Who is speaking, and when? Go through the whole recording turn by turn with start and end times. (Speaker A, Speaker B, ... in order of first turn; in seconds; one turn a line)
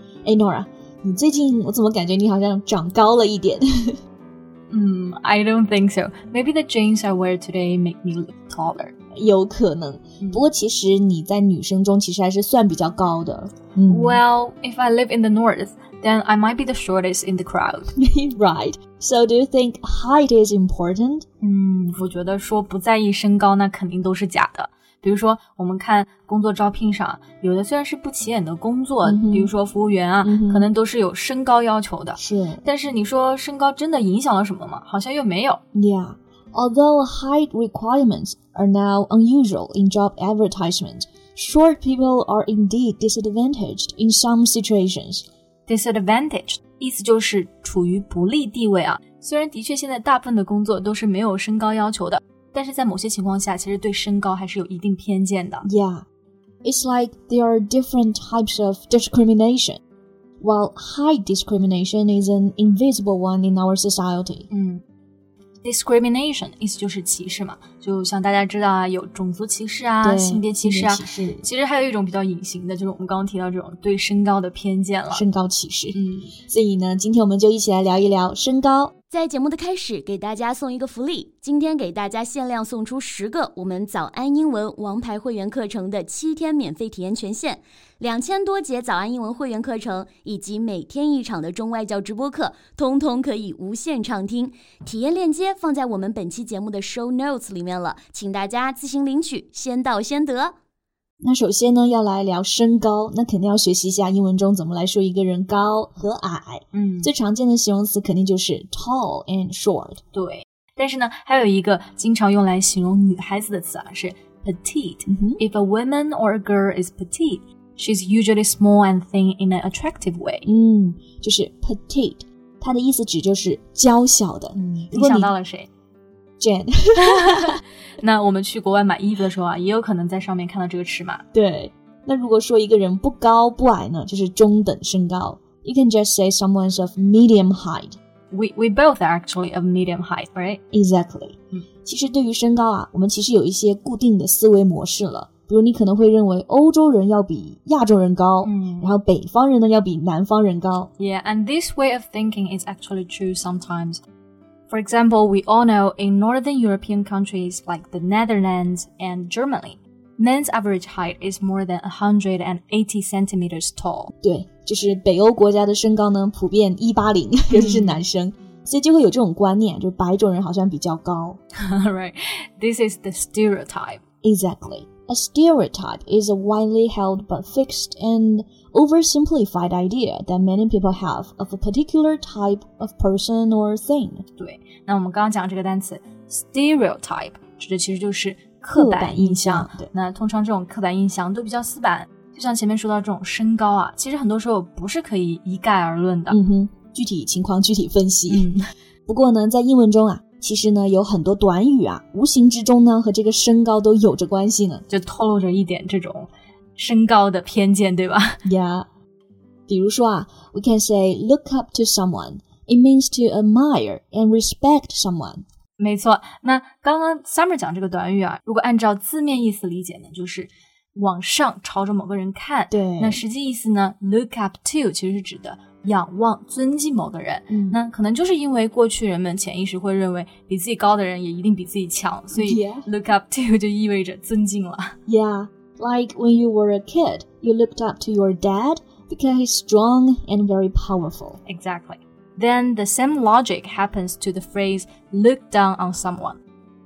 Speaker A: 0.2-4.0
Speaker B: 4.7-8.9
Speaker A: 9.1-14.2
Speaker B: 13.9-17.9
Speaker A: 17.9-21.2
Speaker B: 21.4-35.6
Speaker A: 29.0-29.5
Speaker A: 30.2-30.7
Speaker A: 32.2-32.6
Speaker A: 35.7-45.2
Speaker B: 45.7-55.6
Speaker A: 55.6-56.0
Speaker A: 56.6-59.8
Speaker A: 60.4-64.5
Speaker B: 64.5-64.8
Speaker B: 65.6-75.2
Speaker A: 70.0-71.4
Speaker A: 75.1-78.9
Speaker B: 75.9-76.3
Speaker C: 79.1-100.5
Speaker A: 101.2-110.0
Speaker B: 106.7-107.1
Speaker B: 110.1-120.5
Speaker A: 115.1-115.4
Speaker A: 120.4-125.3
Speaker B: 124.6-125.7
Speaker A: 126.4-127.6
Speaker B: 127.0-131.2
Speaker A: 131.3-138.0
Speaker B: 138.3-140.6
Speaker A: 140.7-150.9
Speaker B: 148.4-148.9
Speaker B: 151.0-154.0
Speaker B: 154.7-164.1
Speaker A: 164.2-171.4
Speaker B: 167.5-168.0
Speaker B: 171.6-174.0
Speaker A: 174.2-184.2
Speaker B: 184.4-196.4
Speaker A: 188.7-189.9
Speaker A: 196.3-198.5
Speaker B: 198.3-198.6
Speaker A: 199.1-204.8
Speaker B: 204.9-208.4
Speaker A: 208.4-208.9
Speaker A: 209.7-215.4
Speaker B: 215.8-235.0
Speaker A: 222.7-223.2
Speaker A: 227.5-227.8
Speaker A: 232.3-232.9
Speaker A: 235.1-241.4
Speaker B: 241.5-246.4